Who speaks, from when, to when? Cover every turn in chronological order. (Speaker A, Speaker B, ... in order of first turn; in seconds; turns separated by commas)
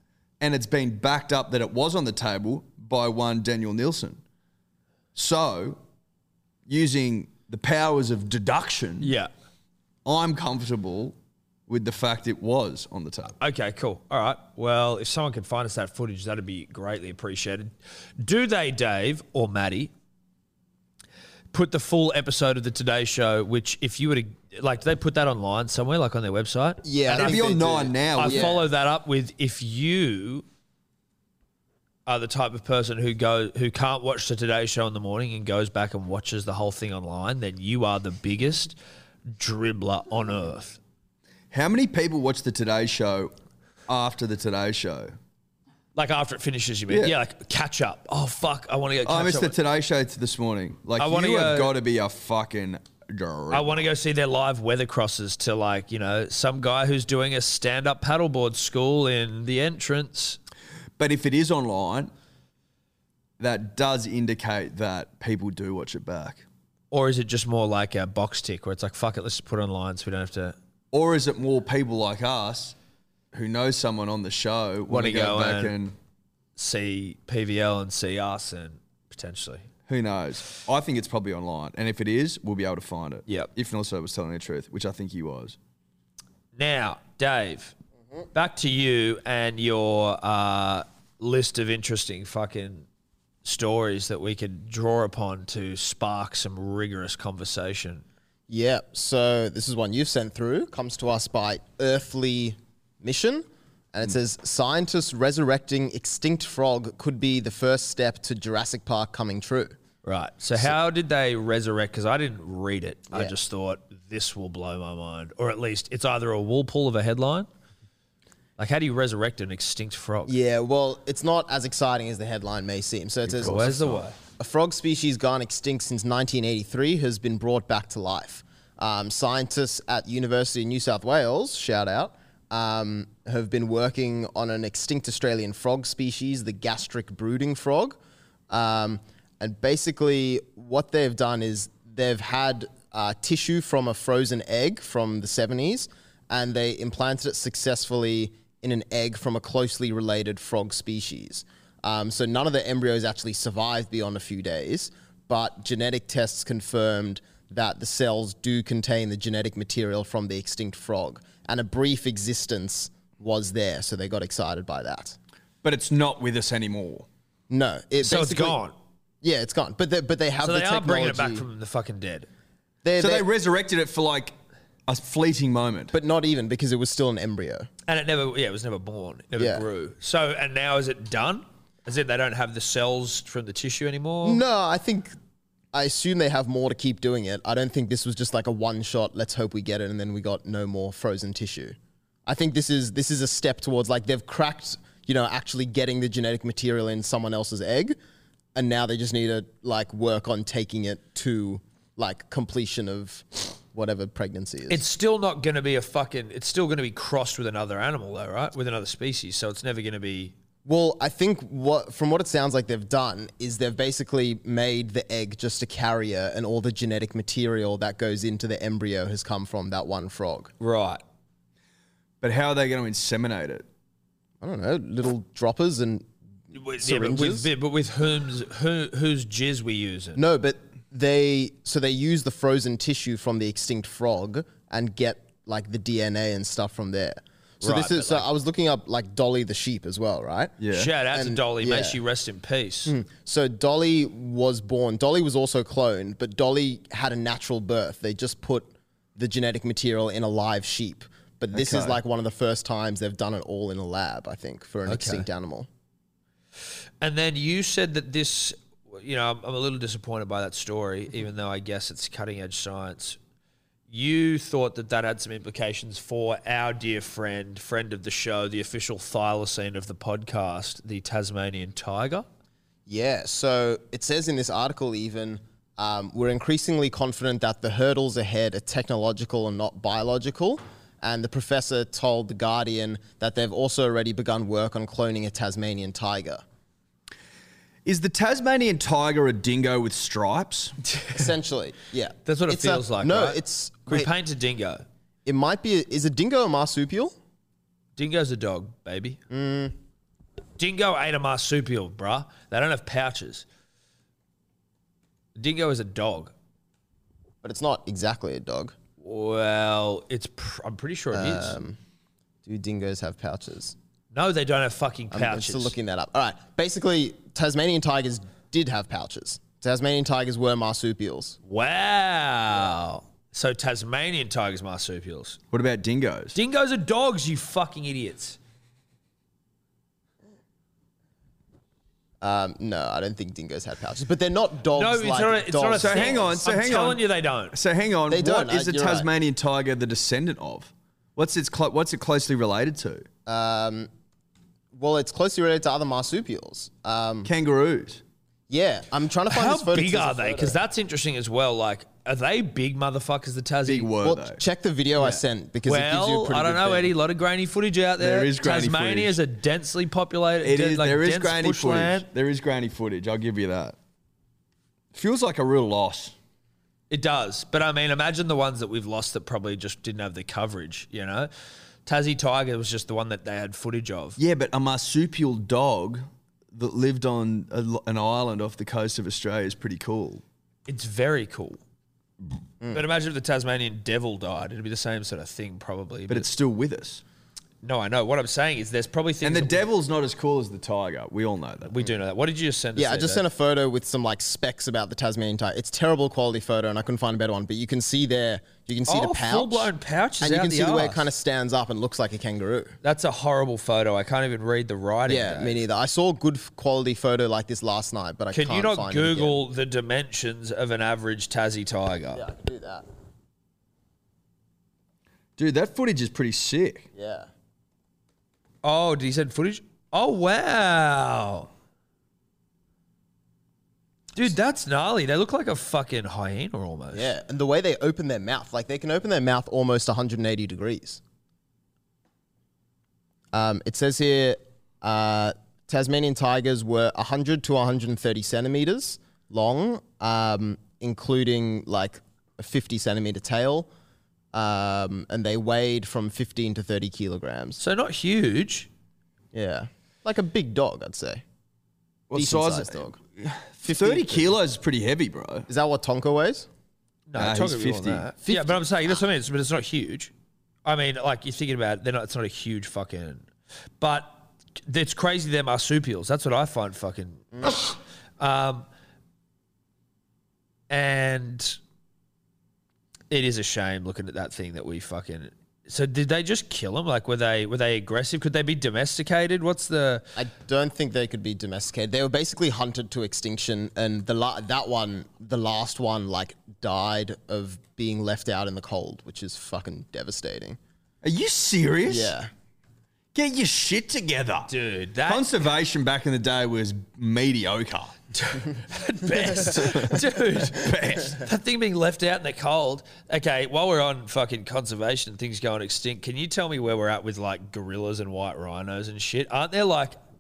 Speaker A: 0.4-4.2, Speaker A: 5.1-5.8, Speaker A: 6.7-9.1, Speaker B: 9.0-9.3, Speaker A: 10.0-11.1, Speaker A: 11.7-13.3, Speaker B: 13.4-19.9, Speaker B: 21.5-27.4, Speaker C: 26.8-28.6, Speaker A: 27.1-28.6, Speaker B: 28.2-30.4, Speaker B: 32.0-38.8, Speaker B: 39.4-40.8, Speaker A: 41.5-43.3, Speaker A: 43.9-45.1, Speaker B: 46.0-49.5, Speaker A: 46.9-47.1, Speaker A: 49.0-53.9, Speaker B: 51.0-51.7, Speaker B: 53.5-60.4, Speaker A: 61.0-62.1, Speaker A: 63.4-66.4, Speaker B: 66.9-70.5, Speaker A: 70.9-72.8, Speaker A: 73.3-75.9, Speaker B: 74.9-75.8, Speaker B: 76.5-79.7, Speaker A: 79.9-85.6, Speaker B: 86.5-87.7, Speaker B: 88.3-92.8, Speaker B: 93.4-98.0, Speaker C: 98.5-109.8, Speaker B: 110.0-117.5, Speaker B: 118.6-120.3, Speaker C: 120.3-123.7, Speaker A: 123.4-124.0, Speaker B: 123.4-124.2, Speaker C: 124.3-138.0, Speaker C: 138.5-165.2, Speaker A: 165.6-167.1, Speaker C: 167.5-168.6, Speaker B: 168.0-168.8, Speaker C: 169.2-171.4, Speaker B: 170.4-172.3, Speaker C: 172.8-173.2, Speaker A: 173.0-174.3, Speaker A: 174.9-175.9, Speaker C: 175.9-177.7, Speaker B: 177.9-184.4, Speaker C: 179.4-179.6, Speaker C: 184.2-185.2, Speaker C: 185.7-198.0, Speaker C: 198.5-204.8, Speaker B: 204.7-210.3, Speaker C: 210.6-220.5, Speaker B: 220.6-221.0, Speaker A: 222.2-223.6, Speaker C: 224.4-226.1, Speaker B: 226.5-230.2, Speaker C: 226.8-227.5, Speaker C: 230.2-240.5, Speaker B: 237.6-238.2, Speaker A: 240.6-240.9, Speaker B: 240.7-242.9, Speaker C: 241.1-242.0, Speaker C: 242.8-255.7, Speaker A: 251.5-252.0, Speaker B: 254.8-255.2, Speaker B: 257.0-263.2, Speaker B: 263.9-272.3, Speaker C: 272.9-286.4, Speaker A: 287.8-290.8, Speaker B: 290.9-291.2, Speaker C: 291.1-294.1, Speaker B: 292.2-294.8, Speaker C: 295.2-297.1, Speaker B: 298.0-299.2, Speaker C: 299.3-299.8, Speaker B: 300.6-303.4, Speaker B: 305.4-306.3, Speaker C: 307.4-308.8, Speaker B: 309.0-311.6, Speaker C: 311.1-311.8, Speaker C: 312.4-313.7, Speaker B: 314.1-315.7, Speaker C: 315.1-321.4, Speaker B: 321.4-325.4, Speaker A: 325.5-326.4, Speaker B: 326.3-328.4, Speaker C: 332.2-336.3, Speaker B: 334.7-337.5, Speaker A: 335.7-343.1, Speaker C: 338.1-339.1, Speaker C: 343.2-343.9, Speaker C: 344.7-347.3, Speaker A: 347.2-348.0, Speaker C: 348.5-350.6, Speaker B: 349.3-353.9, Speaker A: 353.7-354.4, Speaker C: 354.0-356.9, Speaker B: 354.9-362.0, Speaker A: 358.0-359.2, Speaker A: 360.4-363.8, Speaker A: 364.9-366.1, Speaker B: 366.9-371.3, Speaker B: 371.9-374.2, Speaker A: 374.2-380.2, Speaker B: 380.7-381.6, Speaker B: 382.7-386.3, Speaker A: 386.1-387.0, Speaker B: 387.6-389.6, Speaker A: 389.2-391.9, Speaker B: 391.7-393.2, Speaker C: 392.8-402.7, Speaker B: 398.9-401.1, Speaker B: 402.8-405.6, Speaker C: 405.1-409.4, Speaker B: 408.3-412.2, Speaker C: 412.1-412.8, Speaker A: 415.4-416.9, Speaker C: 416.9-417.3, Speaker B: 418.6-421.5, Speaker B: 424.1-427.1, Speaker C: 426.9-431.0, Speaker C: 433.3-443.7, Speaker C: 444.3-447.6, Speaker B: 447.6-448.7, Speaker C: 449.3-451.2, Speaker A: 452.1-455.5, Speaker C: 452.1-453.0, Speaker C: 453.6-454.4, Speaker C: 455.5-456.5, Speaker B: 457.1-460.1, Speaker A: 457.2-458.1, Speaker B: 460.6-463.3, Speaker B: 463.8-468.6, Speaker B: 470.7-471.6, Speaker B: 473.1-480.1, Speaker C: 480.1-490.6, Speaker A: 491.0-492.1, Speaker C: 491.9-492.3, Speaker A: 493.1-494.5, Speaker B: 494.5-495.3, Speaker A: 495.1-498.0, Speaker B: 498.1-509.9, Speaker A: 499.4-501.1